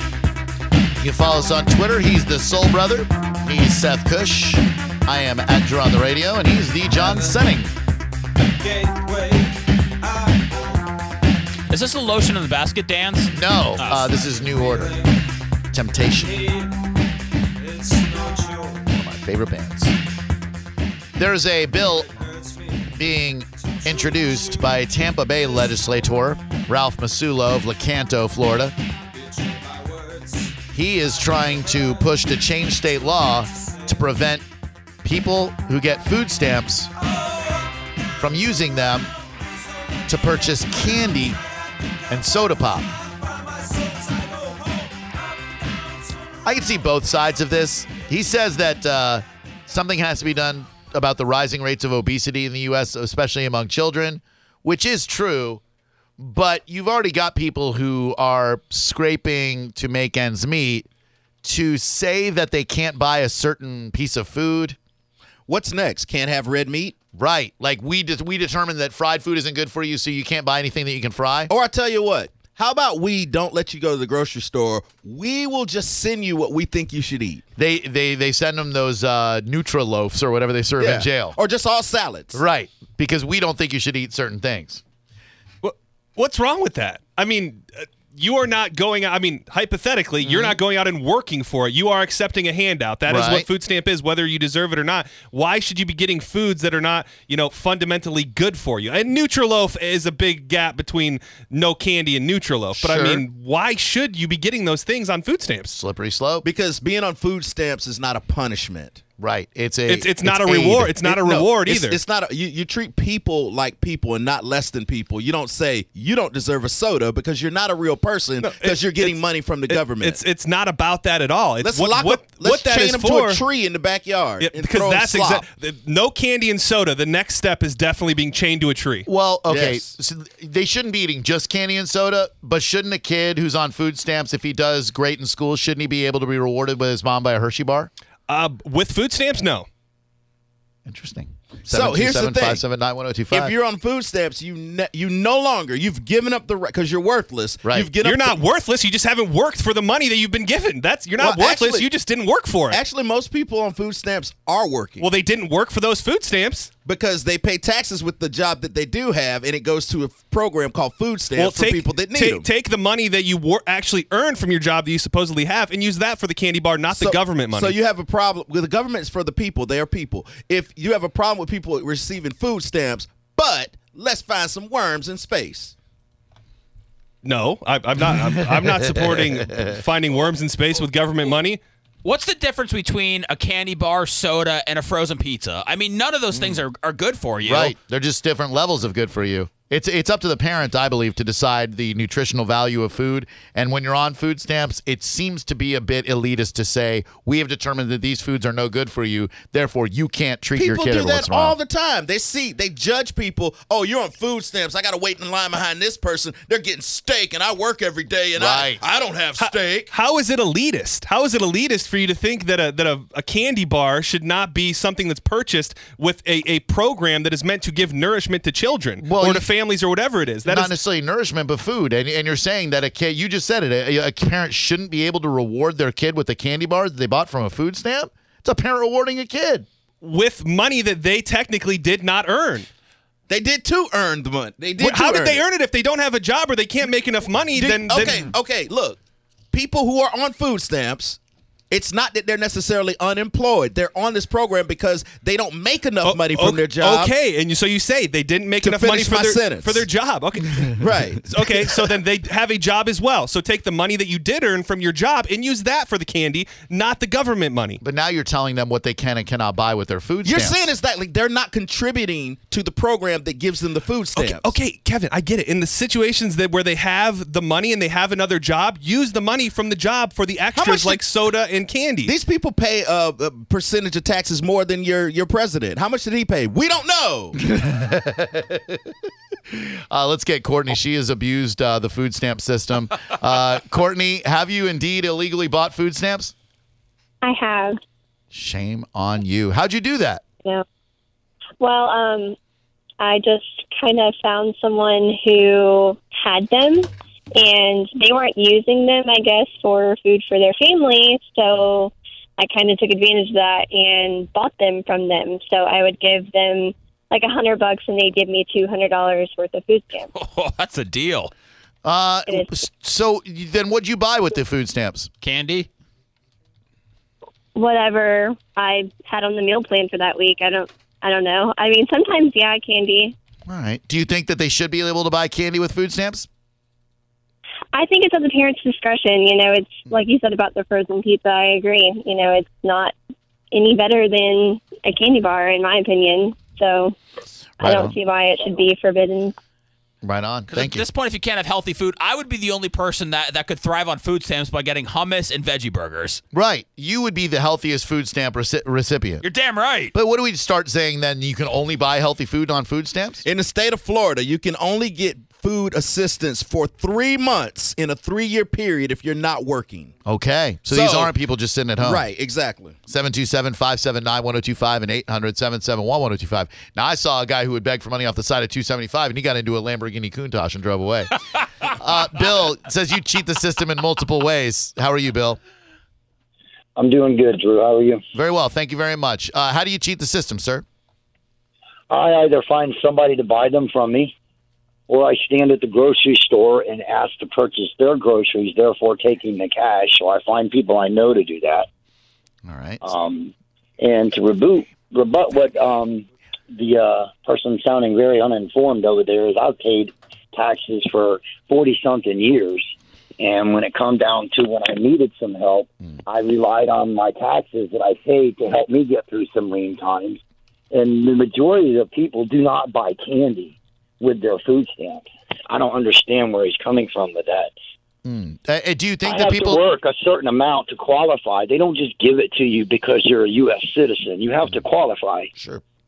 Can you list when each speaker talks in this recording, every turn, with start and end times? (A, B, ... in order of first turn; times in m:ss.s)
0:01.0-0:07.7 A
0:11.7-0:14.1 B
0:13.3-0:15.0 A
0:15.7-0:16.4 A
0:18.9-0:19.9 A
0:21.2-0:22.1 A
0:22.9-0:28.7 A
0:30.7-0:34.4 A
0:35.0-0:36.9 A
0:38.2-0:39.1 A
0:40.1-0:41.4 A
0:42.1-0:42.9 A
0:46.4-0:55.6 A
0:56.2-1:00.8 A
1:01.4-1:04.8 A
1:05.5-1:06.9 C
1:07.1-1:11.5 A
1:11.5-1:17.4 C
1:17.6-1:21.4 A
1:20.8-1:22.4 C
1:22.3-1:24.8 A
1:25.6-1:45.8 D
1:30.2-1:30.6 A
1:33.1-1:33.4 A
1:42.7-1:43.2 A
1:45.7-1:46.4 A
1:46.4-1:49.0 C
1:49.2-1:51.0 A
1:49.9-1:52.0 D
1:51.0-2:00.2 C
1:58.4-2:03.4 D
2:01.6-2:05.4 C
2:04.4-2:09.1 D
2:09.1-2:17.9 A
2:09.5-2:09.8 C
2:18.3-2:19.7 D
2:20.8-2:23.5 A
2:21.7-2:22.6 C
2:23.3-2:28.4 C
2:28.0-2:32.8 D
2:31.2-2:31.9 C
2:32.7-2:35.1 C
2:35.0-2:36.7 D
2:36.8-2:42.5 C
2:41.3-2:47.8 D
2:46.9-2:55.7 C
2:57.2-3:01.6 D
3:02.0-3:07.7 B
3:06.3-3:06.6 A
3:07.4-3:21.5 A
3:20.5-3:29.9 C
3:28.4-3:28.8 A
3:29.4-3:40.7 D
3:39.0-3:39.5 A
3:40.4-3:49.6 A
3:50.0-3:52.7 D
3:53.3-3:55.4 C
3:54.8-3:58.3 D
3:57.5-3:59.0 C
3:59.5-4:01.2 C
4:01.7-4:07.1 C
4:06.0-4:17.8 D
4:08.6-4:09.8 C
4:10.8-4:11.5 C
4:17.8-4:20.7 A
4:20.2-4:24.5 C
4:24.1-4:32.1 D
4:30.5-4:31.0 C
4:32.0-4:37.3 C
4:37.4-4:38.8 A
4:39.5-4:46.3 A
4:47.2-4:47.8 E
4:48.3-4:50.2 A
4:51.6-4:52.4 E
4:53.0-5:10.1 E
5:10.2-5:11.3 B
5:11.8-5:15.1 A
5:12.3-5:12.5 E
5:15.2-5:15.7 B
5:17.6-5:23.2 E
5:23.5-5:26.3 A
5:27.7-5:32.9 E
5:33.5-5:37.0 E
5:37.6-5:38.0 A
5:37.6-5:39.3 E
5:40.0-5:40.8 A
5:40.5-5:46.2 B
5:46.3-5:49.2 A
5:49.2-5:49.9 B
5:49.9-5:53.2 A
5:53.2-5:59.9 C
6:00.0-6:02.0 A
6:00.7-6:01.1 C
6:01.8-6:02.8 C
6:02.9-6:15.4 A
6:16.8-6:18.0 F
6:18.1-6:20.6 A
6:21.9-6:24.1 F
6:24.9-6:31.7 F
6:32.4-6:32.8 A
6:32.8-6:50.2 F
6:50.7-6:57.5 F
6:58.0-6:59.6 A
6:59.0-7:05.3 F
7:05.4-7:05.6 A